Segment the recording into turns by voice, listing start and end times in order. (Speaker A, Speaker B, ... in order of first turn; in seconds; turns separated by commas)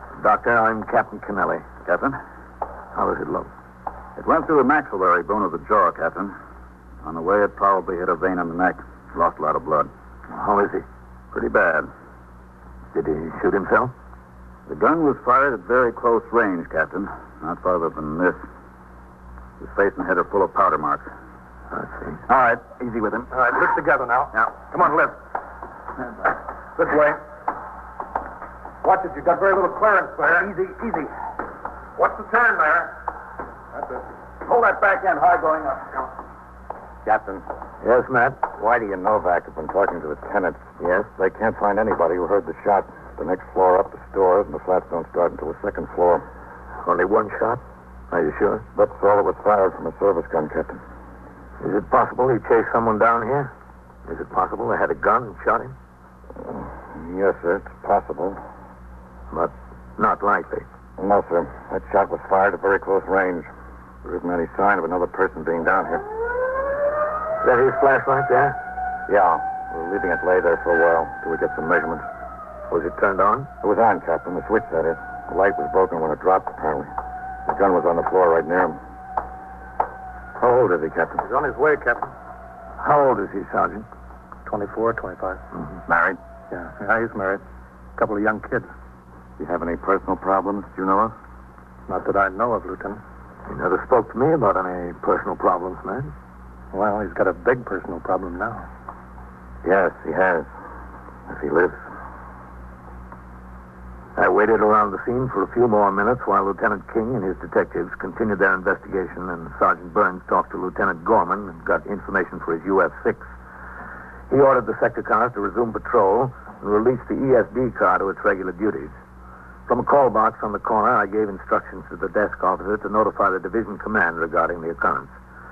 Speaker A: 0.2-1.7, Speaker B: 1.8-2.2, Speaker A: 2.9-3.5, Speaker B: 4.2-6.4, Speaker B: 7.0-9.9, Speaker A: 10.3-10.8, Speaker B: 11.3-11.9, Speaker A: 12.9-13.9, Speaker B: 14.7-18.4, Speaker B: 19.6-21.1, Speaker A: 21.7-22.2, Speaker B: 22.3-23.3, Speaker C: 23.3-25.2, Speaker C: 26.8-27.2, Speaker C: 28.8-30.6, Speaker C: 32.0-33.0, Speaker C: 33.8-34.1, Speaker D: 37.0-37.5, Speaker A: 37.8-38.4, Speaker D: 38.6-46.2, Speaker A: 40.8-41.1, Speaker A: 46.9-48.6, Speaker D: 48.8-50.8, Speaker A: 51.6-53.5, Speaker A: 54.1-55.8, Speaker D: 56.5-58.4, Speaker A: 59.3-60.7, Speaker D: 61.0-63.5, Speaker D: 64.0-66.0, Speaker A: 67.4-68.6, Speaker D: 69.1-72.0, Speaker A: 72.7-73.5, Speaker D: 73.6-76.9, Speaker D: 77.5-78.8, Speaker D: 80.4-81.2, Speaker C: 81.2-82.1, Speaker A: 82.8-83.9, Speaker C: 84.5-85.4, Speaker B: 85.9-86.2, Speaker C: 86.5-87.4, Speaker C: 88.0-88.7, Speaker D: 89.4-91.1, Speaker C: 91.9-93.0, Speaker A: 93.5-96.1, Speaker C: 96.7-98.7, Speaker D: 99.6-100.5, Speaker D: 101.3-101.8, Speaker A: 104.2-113.3, Speaker A: 114.3-119.0, Speaker A: 119.7-125.1